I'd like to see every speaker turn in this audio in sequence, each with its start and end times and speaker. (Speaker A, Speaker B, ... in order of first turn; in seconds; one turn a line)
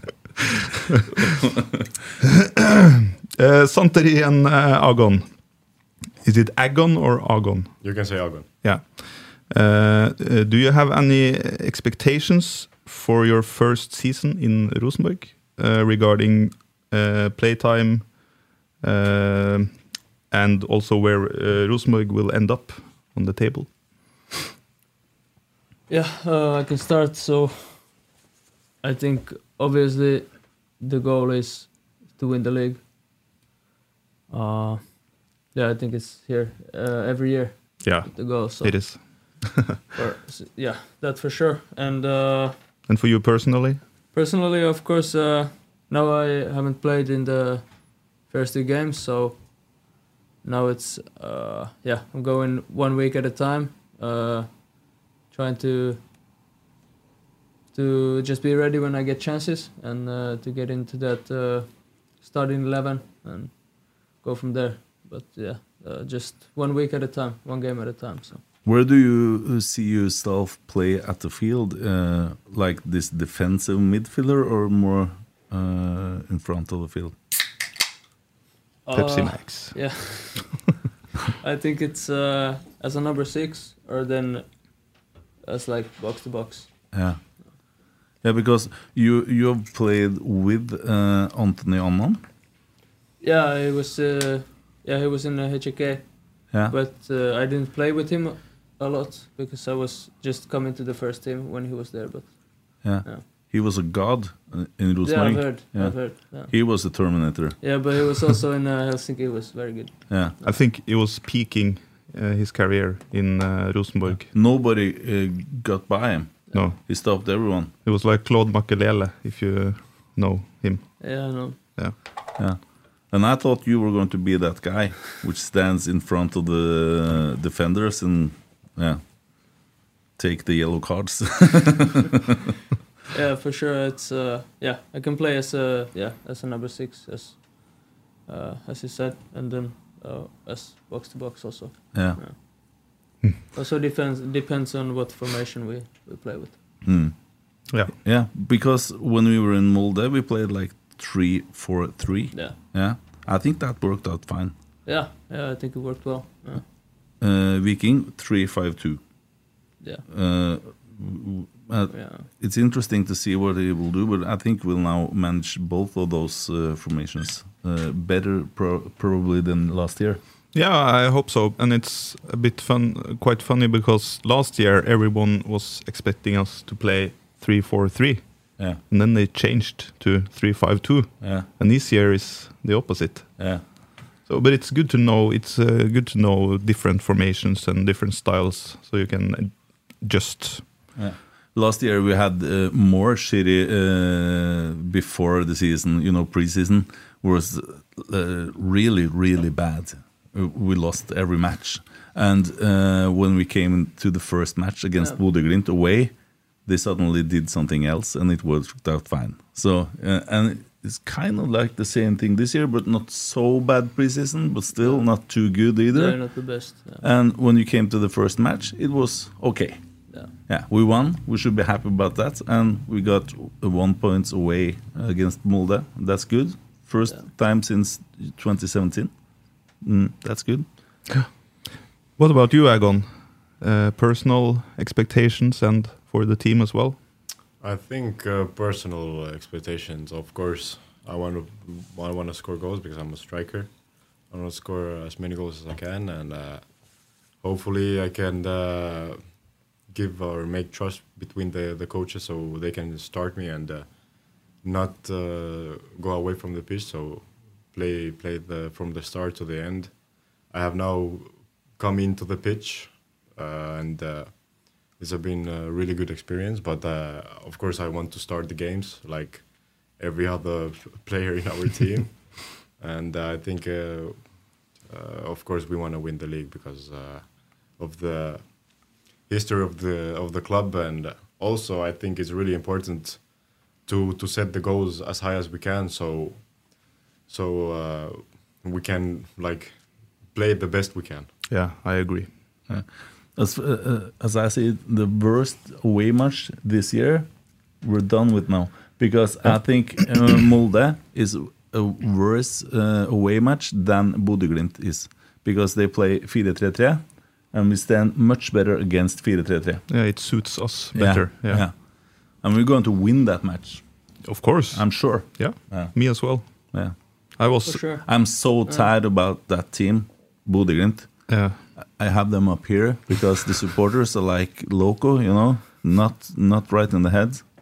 Speaker A: 2.3-5.3
Speaker A: 6.2-7.8
Speaker B: 7.8-8.5
Speaker A: 8.6-18.2
Speaker A: 18.8-19.8
Speaker A: 20.3-23.7
Speaker C: 25.9-27.9
Speaker C: 28.8-32.8
Speaker C: 34.3-34.8
Speaker C: 35.5-39.4
Speaker A: 37.8-39.8
Speaker C: 39.9-42.5
Speaker A: 42.9-43.8
Speaker C: 44.1-49.4
Speaker C: 50.4-54.6
Speaker C: 55.3-56.0
Speaker C: 57.7-68.4
Speaker D: 68.6-77.1
Speaker C: 78.8-80.6
Speaker A: 78.9-79.8
Speaker C: 81.4-84.5
Speaker C: 85.4-86.7
Speaker D: 86.9-87.2
Speaker D: 88.2-92.2
Speaker C: 93.2-103.2
Speaker D: 102.8-107.6
Speaker C: 105.0-106.5
Speaker C: 107.6-110.5
Speaker D: 110.1-110.3
Speaker A: 110.4-114.3
Speaker D: 114.1-117.7
Speaker A: 116.5-116.8
Speaker A: 117.8-122.0
Speaker C: 121.0-121.6
Speaker D: 122.4-129.6
Speaker D: 130.2-132.1
Speaker C: 133.1-142.3
Speaker D: 141.9-142.2
Speaker C: 143.5-146.6
Speaker D: 146.8-147.1
Speaker A: 147.7-147.9
Speaker D: 148.0-154.5
Speaker C: 154.8-156.6
Speaker D: 157.2-159.0
Speaker D: 160.1-170.2
Speaker C: 161.9-162.2
Speaker A: 170.5-183.6
Speaker D: 181.2-181.5
Speaker A: 184.2-190.7
Speaker D: 190.9-206.1
Speaker D: 206.6-216.2
Speaker C: 214.8-215.0
Speaker C: 215.9-217.0
Speaker D: 217.0-219.8
Speaker D: 220.5-229.1
Speaker D: 229.8-230.7
Speaker A: 232.2-233.1
Speaker A: 233.6-237.0
Speaker B: 237.6-278.5
Speaker B: 279.1-286.5
Speaker B: 287.3-291.3
Speaker A: 291.5-292.3
Speaker D: 292.7-297.3
Speaker D: 297.8-309.8
Speaker A: 309.9-311.6
Speaker D: 310.9-311.7
Speaker D: 312.4-313.8
Speaker A: 314.2-316.5
Speaker D: 314.7-315.9
Speaker A: 317.4-317.8
Speaker C: 317.6-318.1
Speaker D: 318.0-321.1
Speaker A: 321.3-321.6
Speaker D: 322.0-327.4